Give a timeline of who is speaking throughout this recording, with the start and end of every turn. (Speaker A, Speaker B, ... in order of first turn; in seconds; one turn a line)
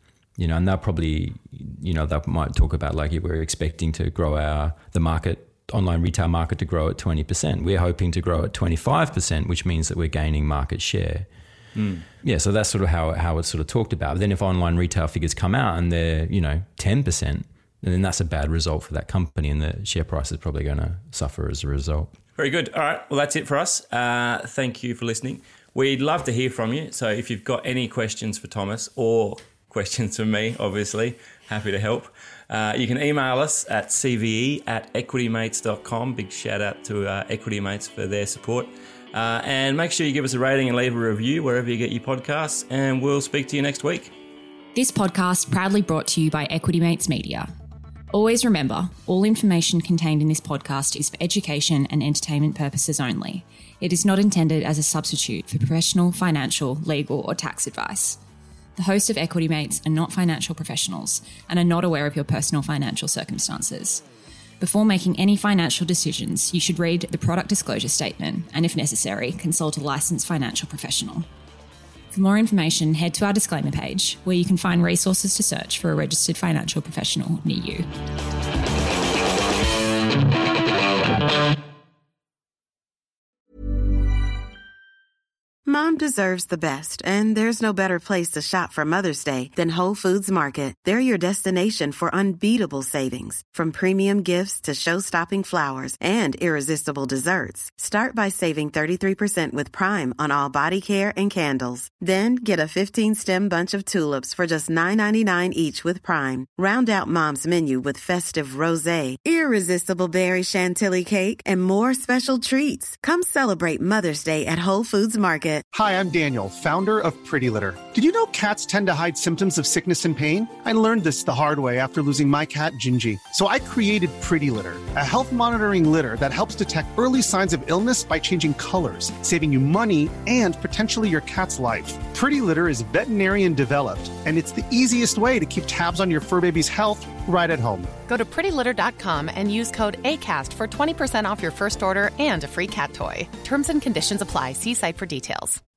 Speaker A: 0.4-11.3
Speaker B: 11.8-12.1
Speaker A: 12.2-22.1
Speaker B: 22.4-44.1
Speaker C: 44.8-47.5
Speaker C: 48.1-58.2
Speaker C: 58.8-64.0
Speaker C: 64.6-71.3
Speaker C: 72.1-77.9
Speaker D: 85.7-115.7
Speaker E: 115.7-137.9
Speaker F: 138.1-145.6